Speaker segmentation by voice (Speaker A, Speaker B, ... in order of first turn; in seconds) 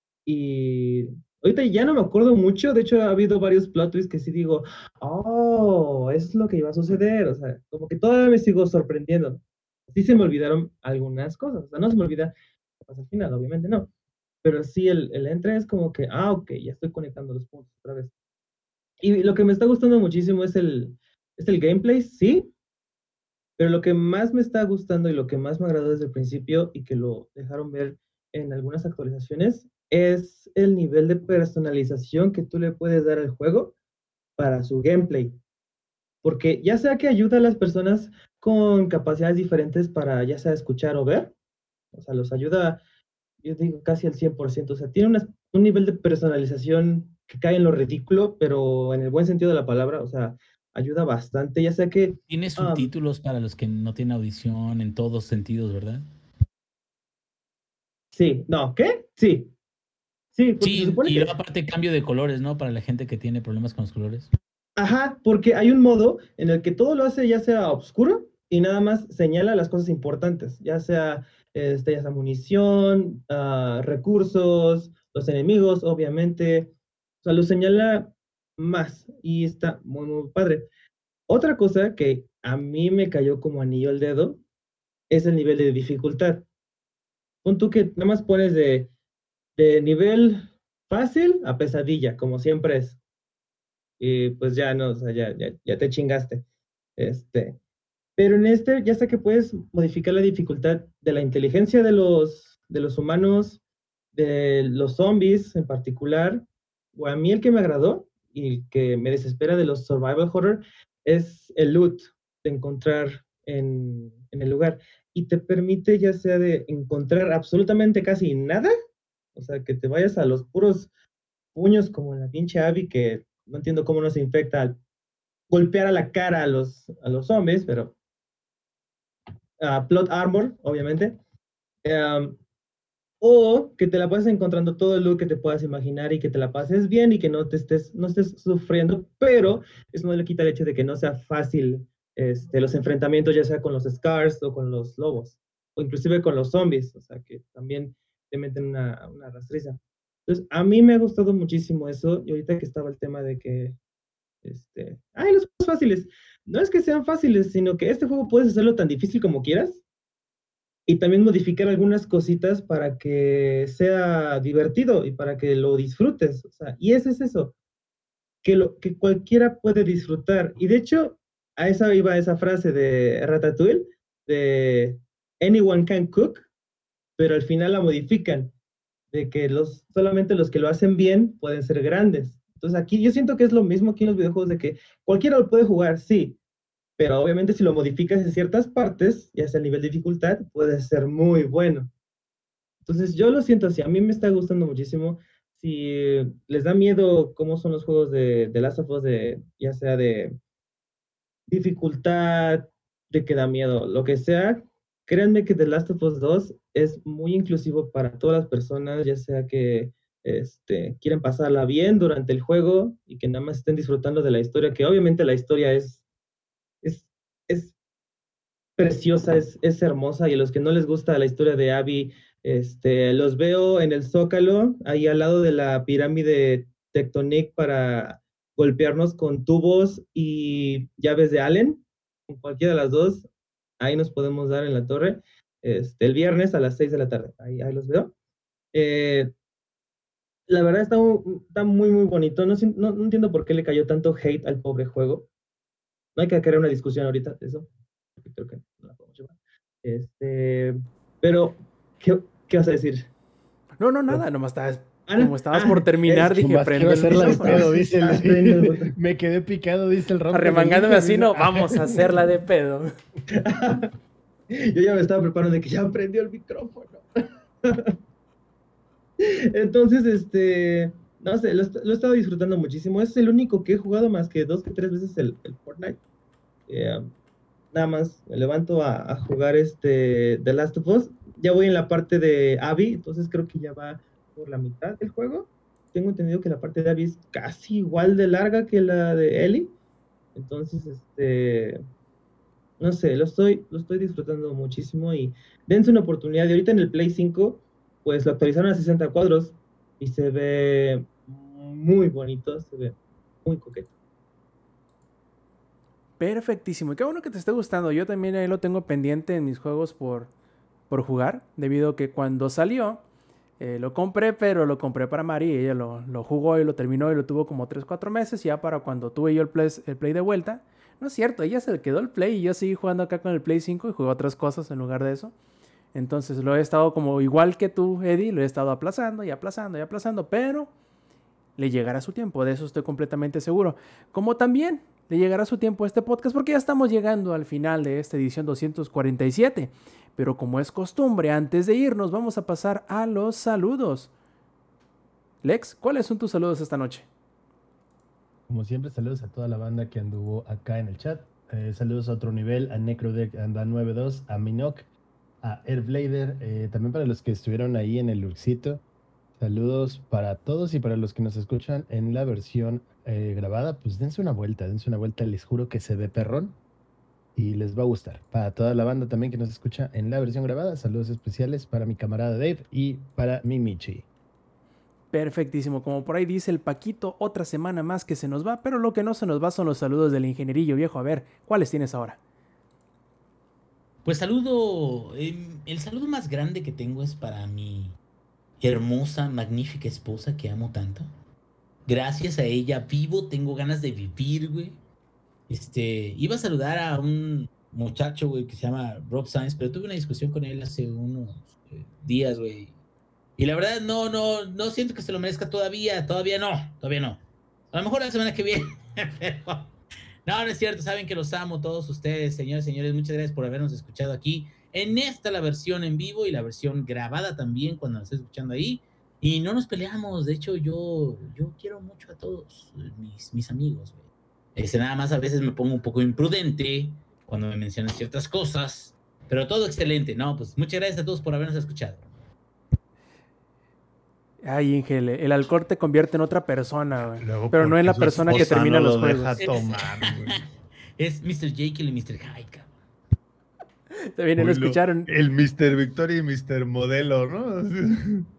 Speaker A: 0.2-13.9, 14.4-18.1, 19.0-22.5, 23.6-33.7, 34.4-35.4, 36.2-41.3, 41.9-42.8, 43.4-52.9, 58.1-59.5, 60.3-61.3, 64.8-76.7, 77.2-80.7, 81.3-84.4, 85.1-86.5, 87.4-88.9, 89.6-93.0, 94.0-96.4, 97.0-97.6, 98.2-103.6, 104.1-118.7, 119.3-120.9, 121.5-124.8, 125.5-127.9, 129.6-131.2, 131.8-132.4, 133.2-153.8, 154.4-159.8, 160.9-167.5, 168.4-176.5, 177.2-178.5, 179.1-186.4, 187.0-191.9, 192.8-200.4, 201.5-216.0, 216.8-217.7, 218.8-233.3, 233.8-238.1, 238.7-239.3, 240.5-245.3, 246.2-253.1, 255.1-256.4, 257.1-258.9, 263.3-263.9, 264.5-267.0, 267.6-267.9, 269.2-276.0, 276.7-277.1, 277.7-289.7, 290.3-291.8, 292.8-303.9
Speaker B: 52.3-56.0, 60.6-64.3, 384.0-388.0, 388.6-391.1, 391.9-394.8, 395.5-402.7, 403.4-407.2, 407.7-409.7, 410.2-432.1, 439.4-440.4, 441.0-442.7
Speaker C: 253.8-257.7, 260.3-262.9, 306.2-310.3, 310.9-313.0, 313.6-325.3, 325.9-330.7, 331.6-344.1, 345.4-347.1, 375.1-382.2, 434.4-439.3, 444.1-445.1
Speaker D: 256.3-262.0, 348.5-354.9, 355.4-358.8, 359.4-366.6, 367.4-374.1
Speaker E: 437.2-440.4, 444.3-448.3